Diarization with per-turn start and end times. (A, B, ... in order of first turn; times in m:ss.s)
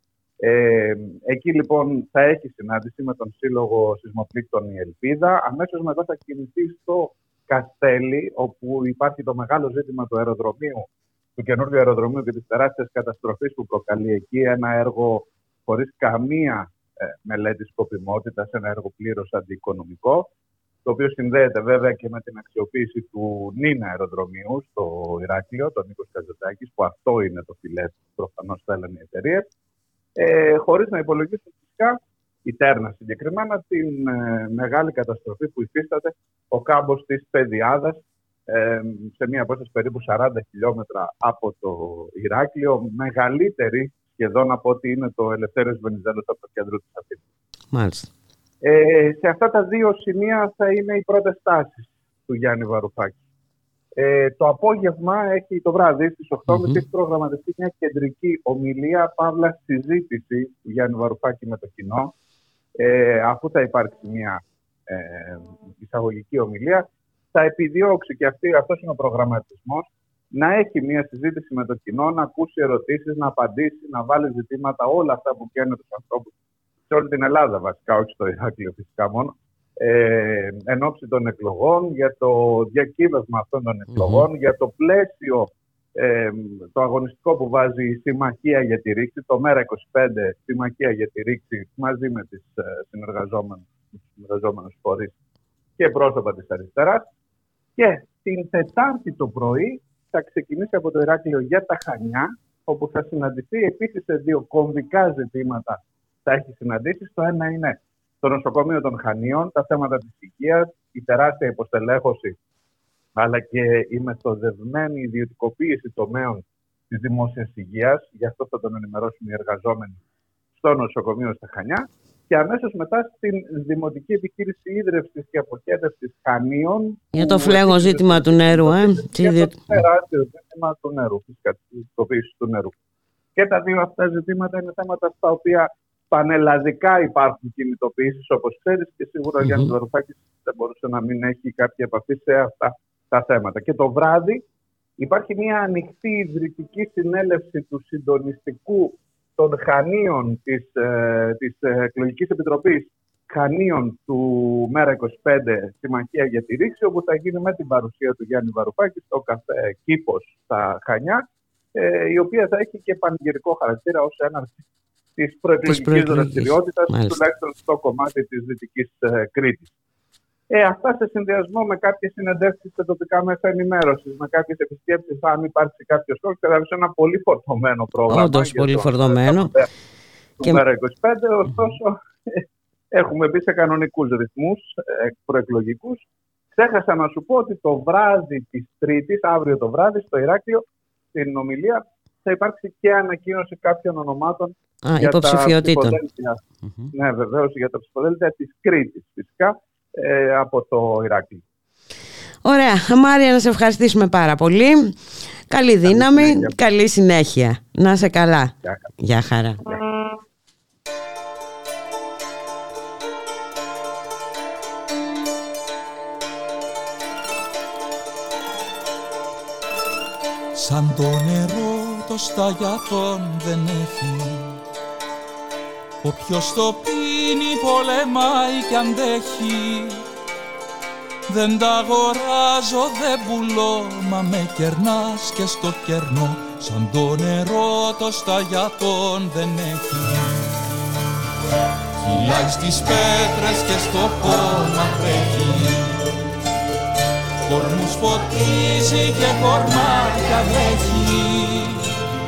0:00.4-0:20.3 A
0:20.8-0:29.5 A
0:30.2-0:47.2 A
0:47.7-0:48.1 B
0:48.6-0:53.2 A
0:54.0-1:02.1 A
1:02.8-1:16.3 A
1:16.9-1:35.2 A
1:23.9-1:24.3 B
1:35.8-1:37.1 A
1:37.8-1:52.4 A
1:53.2-2:00.0 A
2:00.6-2:12.7 A
2:07.1-2:09.8 B
2:13.4-2:24.4 A
2:19.4-2:19.7 B
2:25.0-2:41.2 A
2:41.7-2:44.6 A
2:45.2-2:49.7 A
2:45.6-2:47.2 B
2:50.5-2:59.7 A
2:58.1-2:59.5 B
3:00.4-3:06.0 A
3:06.5-3:16.4 A
3:14.8-3:16.0 B
3:16.9-3:21.4 A
3:22.4-3:24.9 B
3:25.5-3:29.7 B
3:25.8-3:26.6 A
3:40.6-3:44.6 C
3:46.0-3:50.0 C
3:51.3-4:00.5 C
4:02.0-4:06.1 C
4:07.5-4:11.9 C